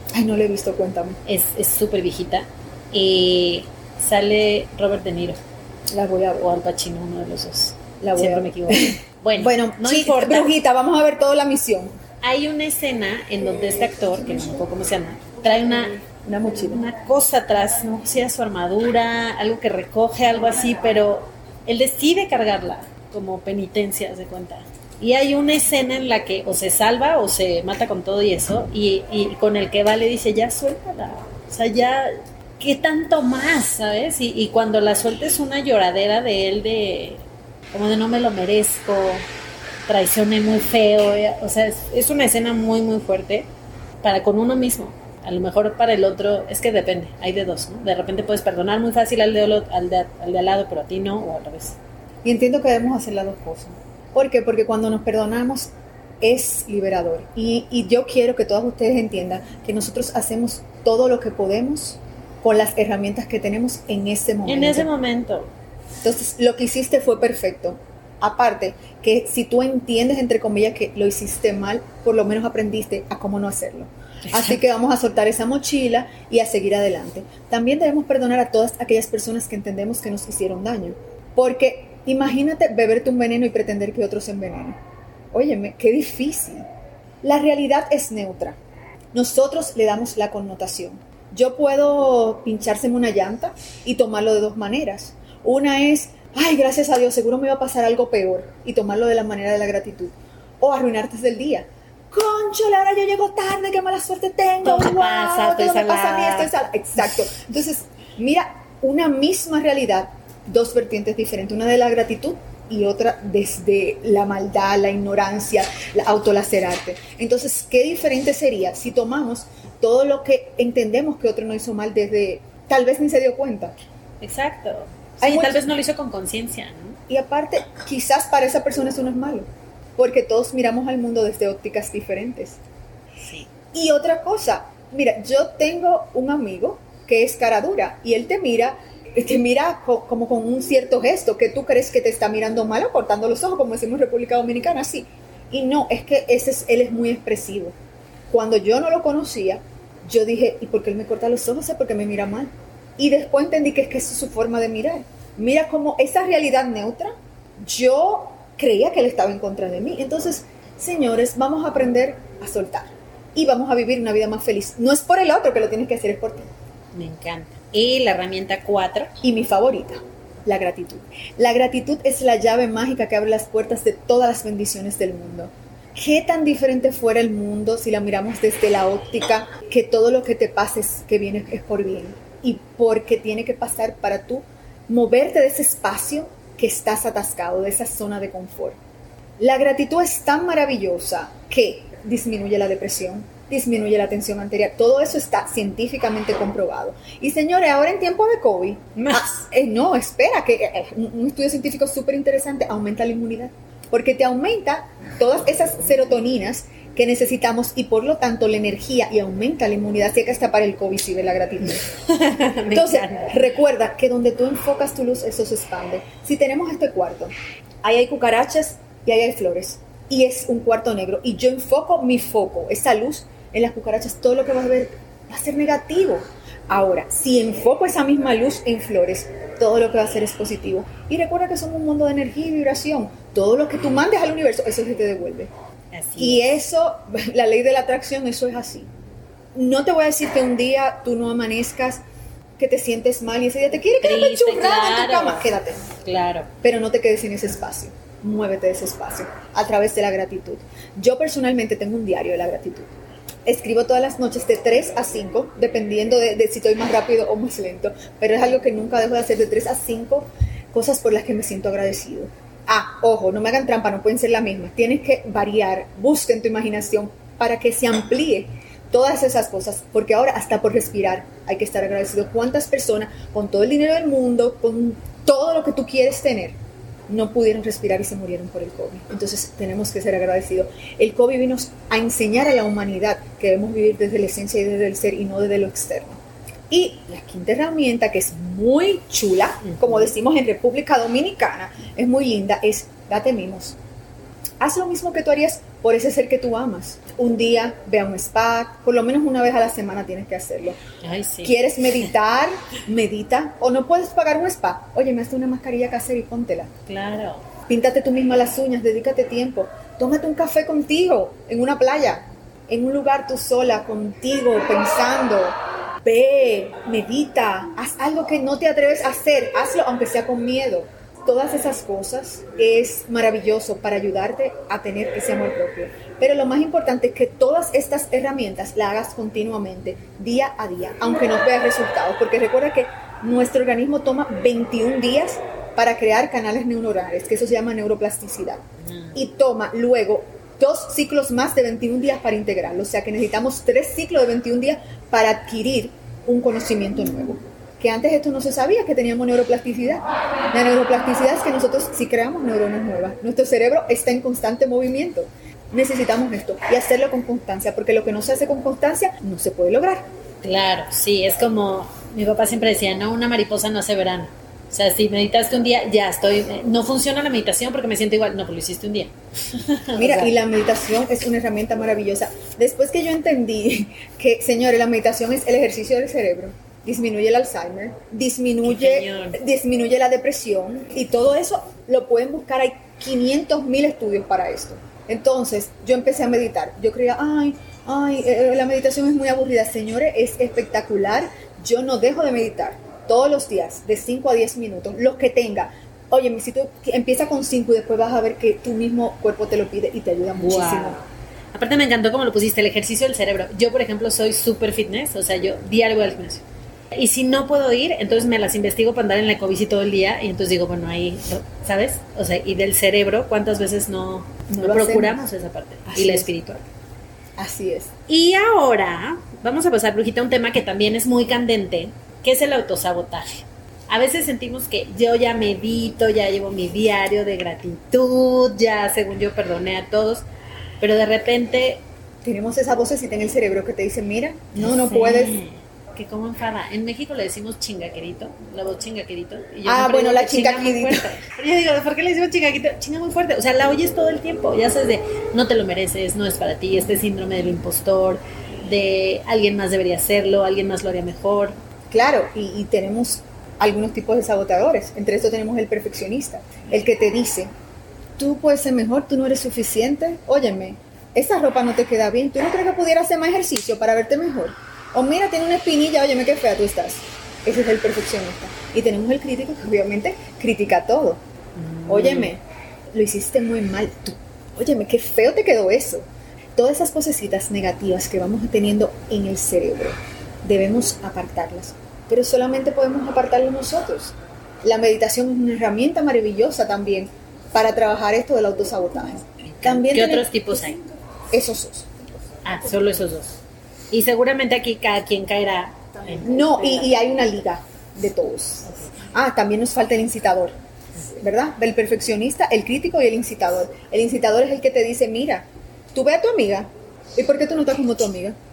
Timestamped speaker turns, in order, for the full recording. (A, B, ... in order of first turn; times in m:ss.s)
0:00.1-0:01.2 A
0:01.2-0:05.4 B
0:05.9-0:06.5 A
0:06.4-0:10.5 B
0:08.0-0:11.9 A
0:12.2-0:16.0 B
0:16.2-0:16.8 A
0:16.7-0:39.3 B
0:39.9-0:43.5 B
0:44.0-0:51.8 B
0:52.2-1:04.9 A
1:04.4-1:05.5 B
1:06.0-1:24.8 A
1:14.3-1:14.6 B
1:25.3-1:26.6 A
1:27.2-1:28.6 A
1:29.1-2:03.7 A
1:44.6-1:46.5 B
2:04.2-2:07.0 B
2:05.2-2:05.6 A
2:07.1-2:12.6 A
2:13.2-2:13.5 B
2:13.7-2:27.7 A
2:28.3-2:46.5 A
2:46.9-2:49.1 B
2:49.2-3:08.8 A
3:09.4-3:31.8 A
3:19.0-3:19.4 B
3:32.1-3:33.3 B
3:32.7-3:55.5 A
3:55.9-3:56.4 B
3:56.2-3:58.9 A
3:59.5-4:02.0 A
4:02.6-4:05.8 A
4:04.0-4:05.5 B
4:06.0-4:06.5 B
4:06.6-4:12.9 A
4:13.4-4:36.6 A
4:37.1-4:53.8 A
4:49.7-4:50.0 B
4:54.6-5:00.8 A
5:01.0-5:01.6 B
5:01.4-5:06.7 A
5:06.9-5:07.4 B
5:07.7-5:38.6 A
5:38.8-5:39.2 B
5:39.1-6:00.1 A
6:00.4-6:10.3 B
6:10.0-6:41.0 A
6:18.6-6:19.4 B
6:40.4-6:56.6 B
6:54.5-6:55.2 A
6:55.9-6:56.3 A
6:57.4-6:57.9 A
6:58.1-7:10.2 B
7:10.8-7:11.8 B
7:12.2-7:15.4 A
7:14.6-7:31.6 B
7:19.6-7:21.1 A
7:31.9-7:37.5 A
7:38.2-7:51.2 A
7:51.6-7:52.3 B
7:51.9-8:10.8 A
8:09.4-8:10.8 B
8:11.3-8:12.0 A
8:12.4-8:13.4 B
8:13.9-8:16.9 B
8:16.2-8:20.6 A
8:18.6-8:19.0 B
8:21.1-8:28.4 A